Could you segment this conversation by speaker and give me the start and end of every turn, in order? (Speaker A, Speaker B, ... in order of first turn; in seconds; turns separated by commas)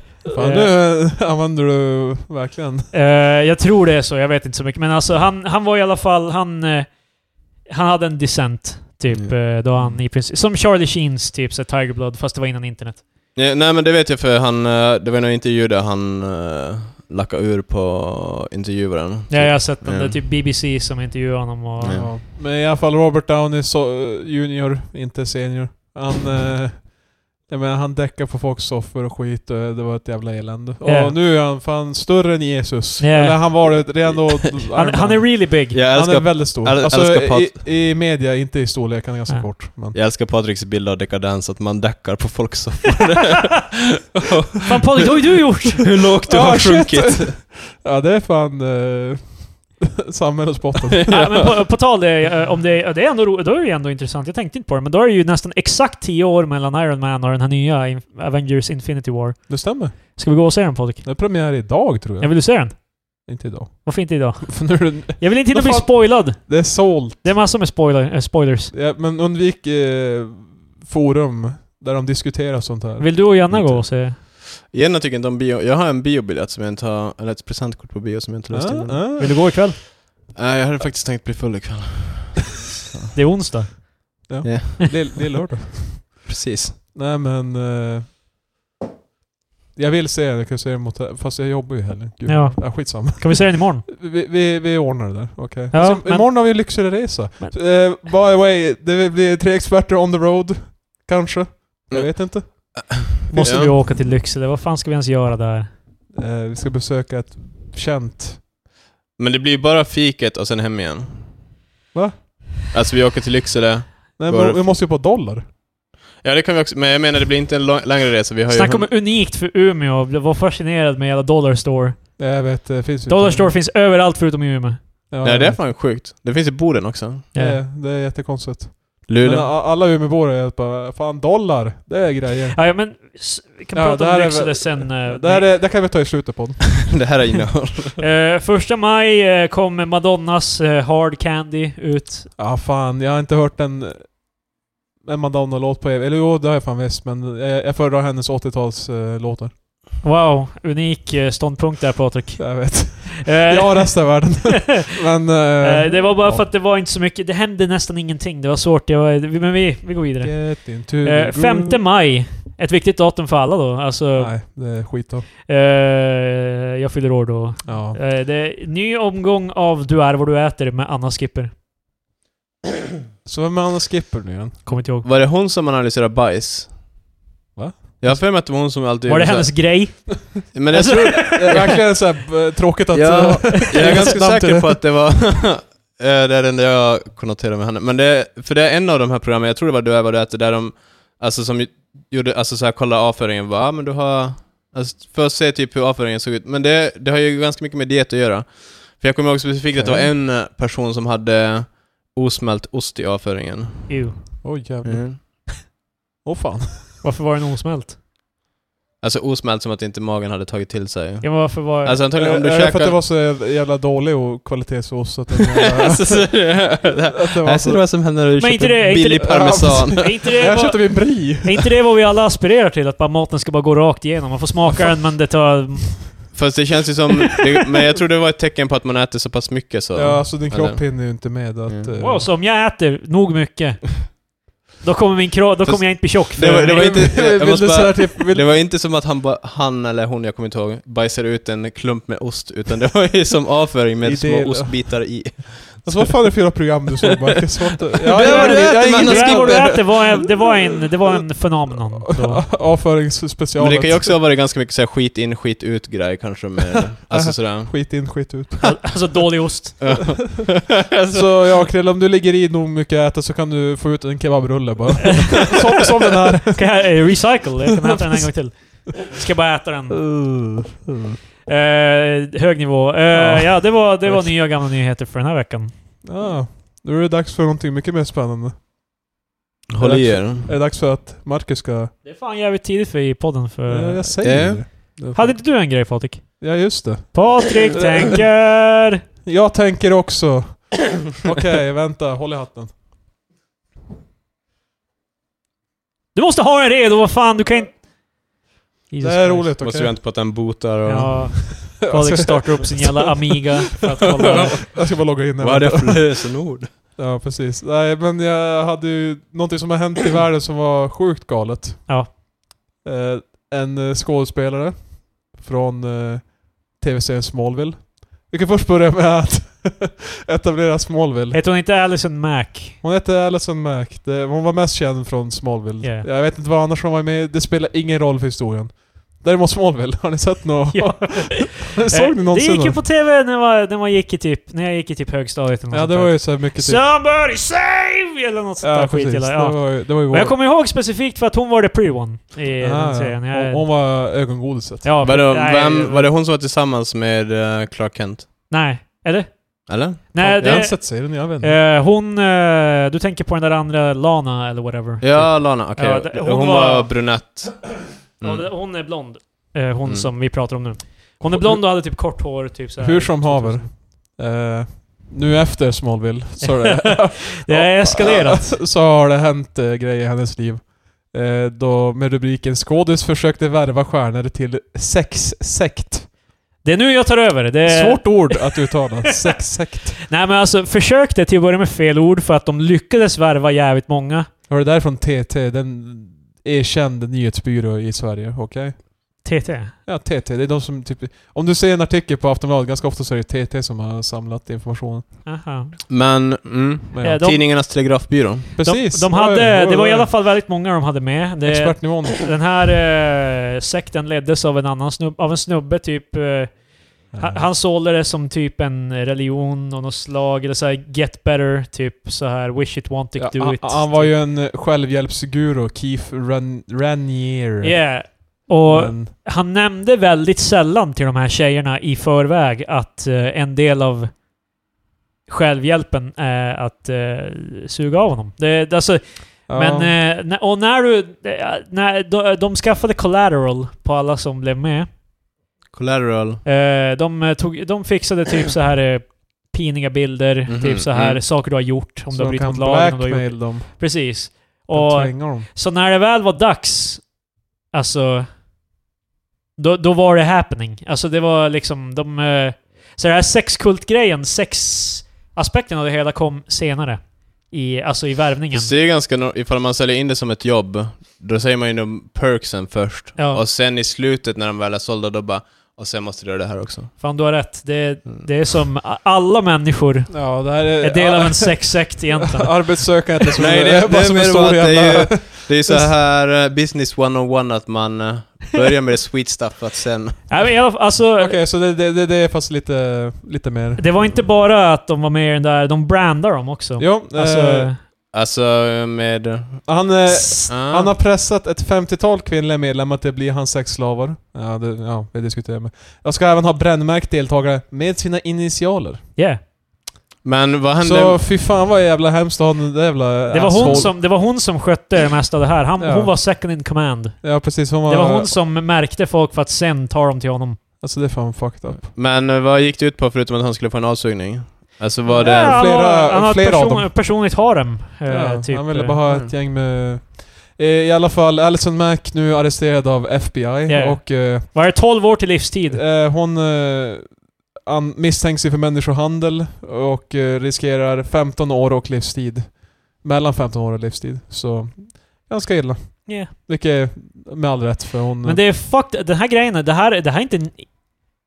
Speaker A: 0.3-2.9, Speaker B: 0.3-0.7, Speaker B: 2.9-13.1, Speaker C: 9.1-9.9, Speaker C: 13.3-20.2, Speaker B: 19.3-22.1, Speaker C: 21.8-22.1, Speaker A: 21.9-40.0, Speaker B: 30.8-31.2, Speaker B: 33.0-33.7, Speaker B: 34.8-35.8, Speaker C: 35.7-37.6, Speaker C: 39.9-47.4, Speaker B: 44.7-46.0, Speaker A: 46.3-51.2, Speaker C: 51.0-51.3, Speaker B: 51.1-63.3, Speaker A: 59.5-60.2, Speaker A: 61.0-67.3, Speaker B: 63.9-68.7, Speaker A: 68.7-73.2, Speaker B: 73.0-74.2, Speaker C: 73.5-79.2, Speaker A: 78.5-79.4, Speaker B: 79.2-79.8, Speaker C: 80.3-83.1, Speaker B: 83.1-84.3, Speaker A: 84.3-86.3, Speaker C: 84.4-85.4, Speaker C: 86.0-86.8, Speaker A: 86.9-88.2, Speaker A: 89.8-102.7, Speaker B: 92.3-93.8, Speaker B: 95.7-97.6, Speaker C: 101.9-103.8, Speaker B: 103.3-105.7, Speaker A: 106.1-108.4, Speaker C: 109.2-111.3, Speaker A: 111.9-112.2, Speaker C: 112.7-114.6, Speaker A: 114.2-115.5, Speaker C: 116.2-118.9, Speaker B: 118.5-122.3, Speaker A: 122.2-123.5, Speaker B: 123.1-125.0, Speaker A: 125.1-125.6, Speaker C: 125.2-127.3, Speaker B: 127.3-127.6, Speaker A: 127.3-132.6, Speaker C: 129.1-129.5, Speaker B: 132.6-135.6, Speaker A: 133.7-137.1, Speaker C: 136.9-138.0, Speaker B: 138.0-142.3, Speaker A: 142.4-149.5, Speaker B: 150.0-154.5, Speaker A: 152.4-156.5, Speaker B: 155.6-164.9, Speaker A: 160.2-161.8, Speaker A: 164.2-165.3, Speaker B: 165.5-171.5, Speaker A: 167.7-168.0, Speaker A: 173.2-174.8, Speaker B: 174.7-175.1, Speaker C: 175.0-176.8, Speaker A: 177.6-178.2, Speaker C: 178.0-182.1, Speaker B: 179.1-181.7, Speaker A: 180.8-184.8, Speaker C: 182.9-205.5, Speaker B: 183.6-184.1, Speaker A: 199.7-200.1, Speaker B: 203.9-204.4, Speaker A: 204.4-205.5, Speaker A: 206.2-207.0, Speaker B: 207.0-208.0, Speaker C: 209.0-213.0, Speaker B: 211.2-212.0, Speaker A: 212.1-218.0, Speaker C: 215.7-220.3, Speaker B: 218.4-226.4, Speaker A: 219.2-221.7, Speaker C: 226.3-231.9, Speaker A: 229.9-232.3, Speaker B: 232.0-237.1, Speaker C: 235.7-246.6, Speaker A: 236.4-238.5, Speaker A: 244.0-250.1, Speaker C: 248.0-250.1, Speaker B: 248.2-252.5, Speaker A: 252.1-254.1, Speaker C: 253.6-258.3, Speaker A: 257.1-259.0, Speaker B: 258.6-260.1, Speaker C: 259.8-261.6, Speaker A: 261.1-267.0, Speaker B: 266.5-270.2, Speaker A: 267.9-268.3, Speaker A: 269.9-271.1, Speaker B: 271.5-275.7, Speaker A: 273.1-274.4, Speaker A: 276.0-278.6, Speaker C: 279.7-280.5, Speaker A: 279.8-281.9, Speaker B: 282.0-289.0, Speaker A: 283.7-285.5, Speaker C: 284.2-284.8, Speaker A: 286.4-288.2, Speaker A: 289.2-292.7, Speaker B: 296.1-297.8, Speaker B: 298.9-299.6, Speaker A: 299.0-299.9, Speaker C: 299.6-301.4, Speaker B: 300.9-304.6, Speaker A: 301.8-303.5, Speaker A: 304.0-306.4, Speaker C: 305.4-306.7, Speaker A: 306.9-312.1, Speaker B: 311.9-312.1, Speaker A: 312.8-321.4, Speaker B: 321.3-322.8, Speaker A: 322.8-332.8, Speaker B: 325.8-326.1, Speaker B: 330.7-343.7, Speaker A: 335.7-336.9, Speaker A: 338.6-340.4, Speaker A: 342.6-344.9, Speaker B: 344.8-346.1, Speaker C: 345.0-348.4, Speaker B: 348.5-356.9, Speaker C: 349.7-350.7, Speaker A: 350.2-351.6, Speaker C: 355.0-358.5, Speaker B: 358.2-363.7, Speaker A: 362.8-376.1, Speaker B: 366.4-368.5, Speaker B: 376.6-378.7, Speaker A: 377.6-380.0, Speaker B: 380.1-384.3, Speaker A: 384.5-389.3, Speaker B: 389.2-389.8, Speaker A: 389.9-395.3, Speaker B: 395.2-395.8, Speaker C: 395.9-398.6, Speaker A: 396.9-397.2, Speaker B: 397.0-397.4, Speaker A: 398.5-400.1, Speaker B: 398.6-414.1, Speaker A: 401.4-402.3, Speaker A: 407.1-407.5, Speaker A: 413.2-418.1, Speaker B: 417.6-424.1, Speaker A: 418.6-419.1, Speaker B: 425.3-434.9, Speaker A: 429.5-429.9, Speaker C: 435.7-436.4, Speaker B: 436.4-447.2, Speaker C: 440.5-441.2, Speaker A: 442.1-445.5, Speaker B: 447.7-448.4, Speaker B: 449.6-458.7, Speaker C: 458.5-466.9, Speaker B: 463.2-463.4, Speaker B: 467.0-473.0, Speaker A: 470.1-475.9, Speaker C: 473.4-480.4, Speaker B: 480.3-481.4, Speaker A: 481.1-483.9, Speaker B: 483.8-487.8, Speaker A: 486.8-487.7, Speaker C: 488.1-489.9, Speaker A: 489.7-499.1, Speaker C: 490.5-490.9, Speaker B: 499.2-499.4, Speaker C: 500.2-501.2, Speaker A: 500.8-503.9, Speaker B: 503.3-510.6, Speaker C: 503.5-503.9, Speaker A: 505.8-506.2, Speaker A: 507.2-508.4, Speaker A: 510.8-511.9, Speaker C: 511.8-515.6, Speaker A: 515.1-517.0, Speaker B: 515.1-519.0, Speaker A: 518.1-524.5, Speaker B: 523.7-525.8, Speaker A: 525.7-538.4, Speaker B: 536.1-536.3, Speaker B: 538.2-540.8